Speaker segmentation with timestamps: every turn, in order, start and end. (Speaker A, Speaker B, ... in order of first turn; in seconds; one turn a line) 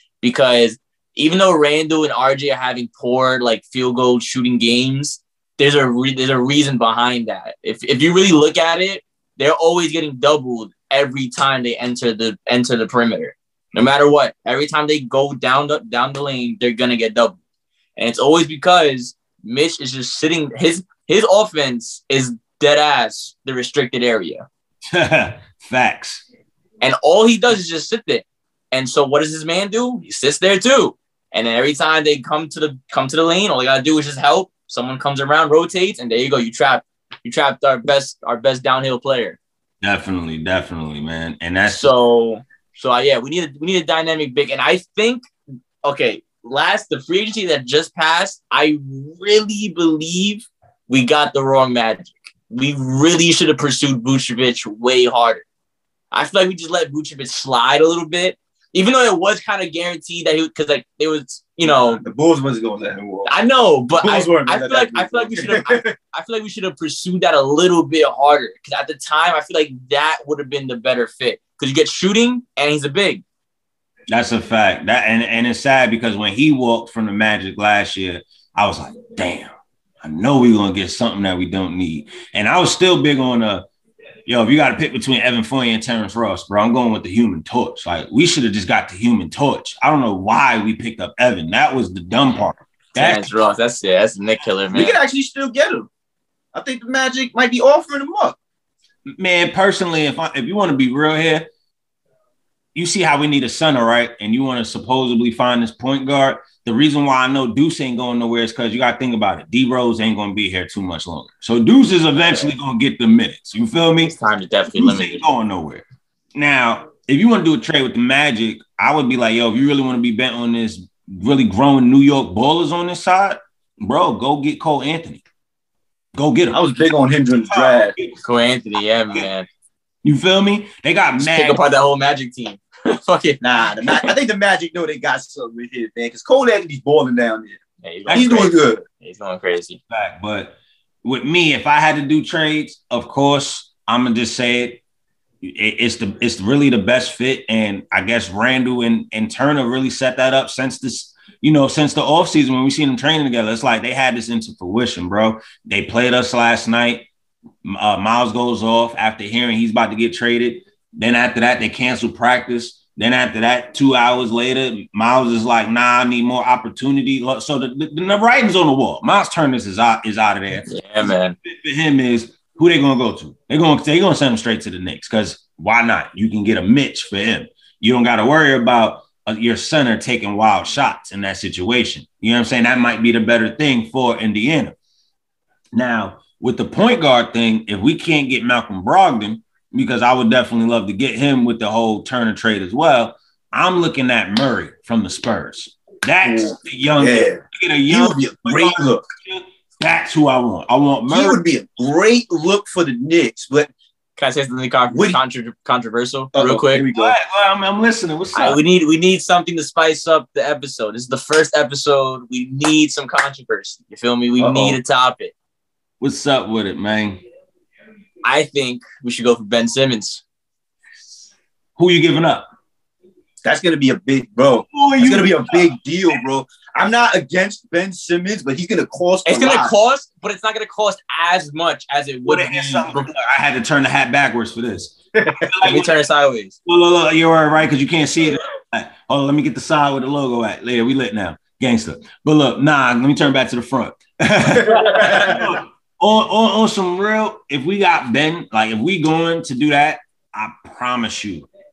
Speaker A: 0.2-17.4
Speaker A: 18.0-24.4
Speaker B: 24.9-26.2
Speaker A: 26.8-39.4
Speaker B: 39.8-41.9
Speaker A: 41.7-45.2
Speaker A: 45.8-55.4
Speaker A: 56.1-62.0
Speaker C: 61.6-63.3
Speaker A: 63.2-73.2
Speaker C: 64.0-65.9
Speaker B: 74.1-83.6
Speaker B: 84.2-93.3
Speaker A: 93.0-95.0
Speaker C: 94.7-95.9
Speaker C: 96.5-98.4
Speaker B: 99.2-101.5
Speaker B: 102.7-114.1
Speaker A: 114.0-115.2
Speaker B: 114.7-115.8
Speaker B: 116.3-125.2
Speaker B: 126.1-126.6
Speaker C: 126.5-127.9
Speaker B: 127.5-128.2
Speaker A: 128.2-129.5
Speaker B: 130.0-131.6
Speaker A: 131.2-134.1
Speaker C: 133.4-138.8
Speaker A: 137.8-139.8
Speaker B: 138.1-138.5
Speaker B: 139.9-144.8
Speaker B: 145.4-157.1
Speaker B: 157.6-170.7
Speaker A: 170.7-171.3
Speaker B: 171.4-184.8
Speaker B: 185.7-201.4
Speaker C: 196.2-199.0
Speaker C: 201.1-203.7
Speaker A: 204.2-206.8
Speaker C: 204.9-205.2
Speaker C: 206.3-207.1
Speaker B: 206.9-208.6
Speaker A: 208.3-215.3
Speaker C: 214.4-214.8
Speaker B: 216.0-217.2
Speaker A: 218.2-220.2
Speaker B: 221.8-222.5
Speaker C: 223.4-229.7
Speaker B: 224.7-225.8
Speaker A: 229.2-233.1
Speaker B: 232.2-236.0
Speaker A: 235.6-236.6
Speaker B: 236.7-251.5
Speaker C: 244.7-245.4